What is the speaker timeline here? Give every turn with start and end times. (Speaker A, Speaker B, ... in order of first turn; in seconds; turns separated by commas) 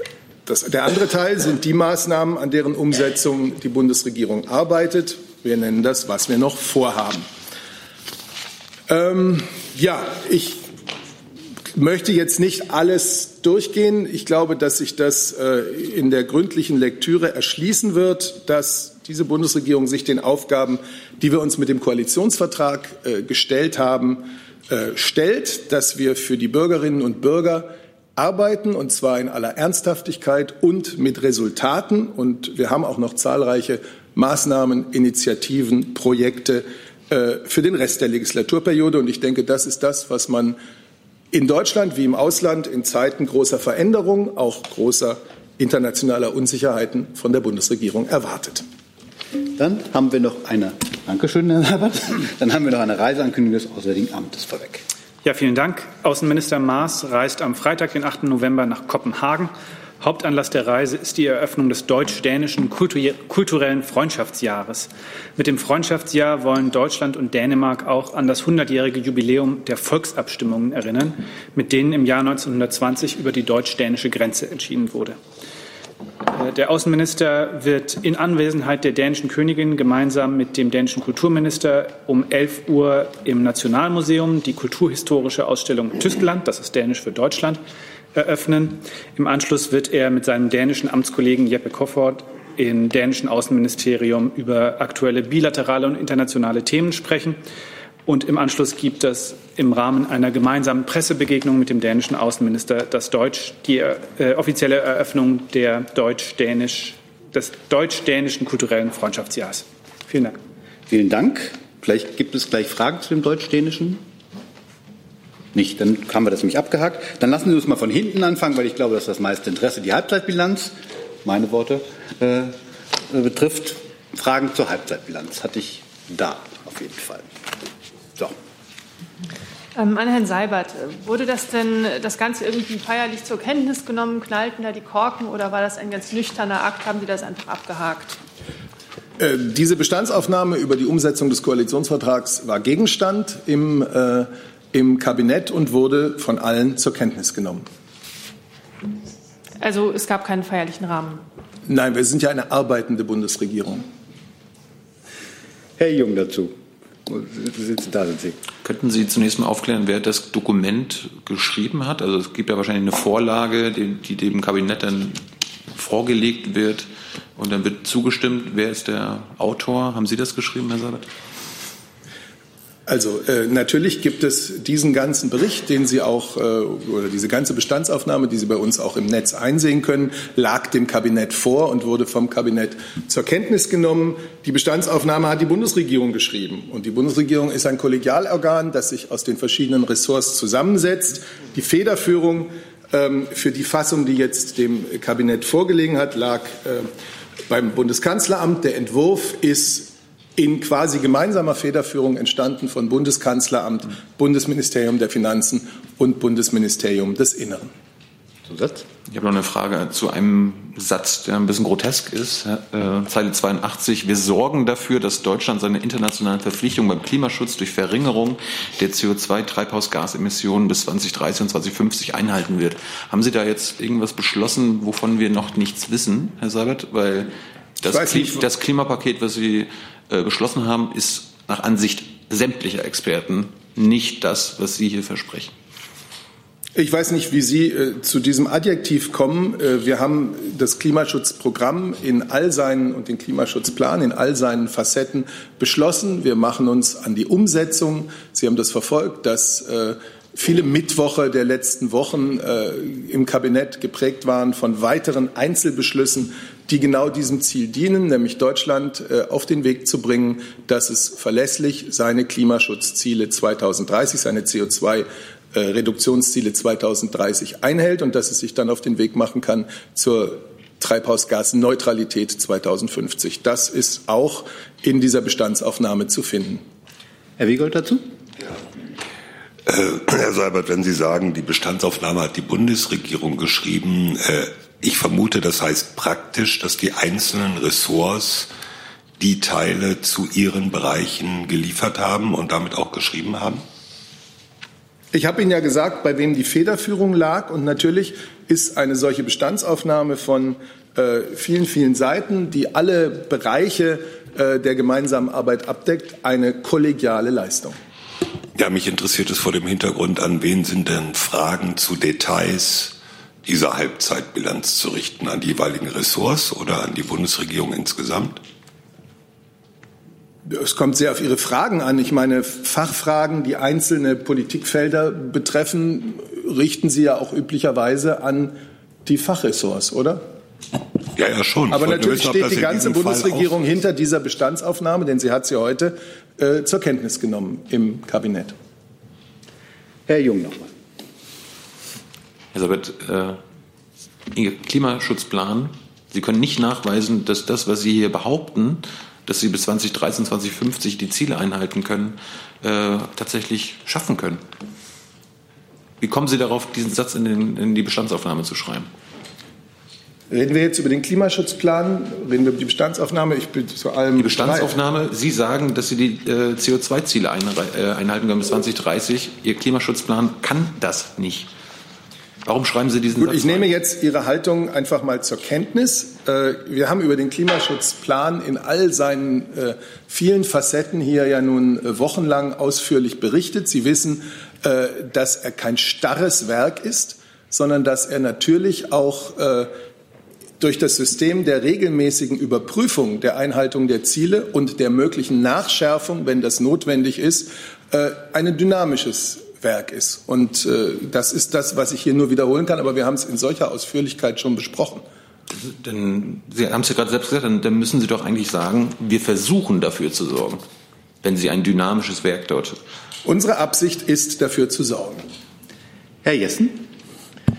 Speaker A: 0.5-7.3, Speaker A: 8.9-10.6, Speaker A: 11.7-40.6, Speaker A: 41.3-48.6, Speaker B: 49.5-54.8, Speaker C: 55.2-75.2, Speaker C: 76.3-87.6, Speaker C: 88.1-97.4, Speaker C: 98.1-110.4, Speaker B: 110.9-114.0, Speaker B: 115.5-122.6, Speaker B: 123.1-127.3, Speaker D: 129.8-138.2, Speaker A: 139.2-147.7, Speaker D: 149.6-151.2, Speaker A: 151.7-153.9, Speaker B: 155.8-156.6, Speaker B: 157.1-158.4, Speaker E: 158.6-171.1, Speaker A: 172.9-196.9, Speaker A: 197.5-207.7, Speaker B: 208.5-208.8, Speaker E: 209.1-235.5, Speaker A: 227.9-228.4, Speaker A: 236.8-276.6, Speaker B: 277.4-278.0, Speaker F: 279.7-288.5, Speaker F: 289.2-293.6, Speaker A: 295.1-307.8, Speaker F: 308.6-318.4, Speaker A: 320.5-328.6, Speaker A: 329.1-330.2, Speaker F: 331.2-333.8, Speaker A: 331.7-338.5, Speaker B: 340.1-340.7, Speaker E: 342.5-343.4, Speaker E: 344.3-354.4, Speaker E: 356.0-358.9, Speaker A: 360.3-364.7, Speaker E: 364.2-371.5, Speaker E: 372.4-373.7, Speaker A: 373.2-389.7, Speaker A: 390.6-405.0, Speaker E: 405.5-410.6, Speaker E: 411.2-412.8, Speaker A: 413.2-415.2, Speaker B: 416.2-416.8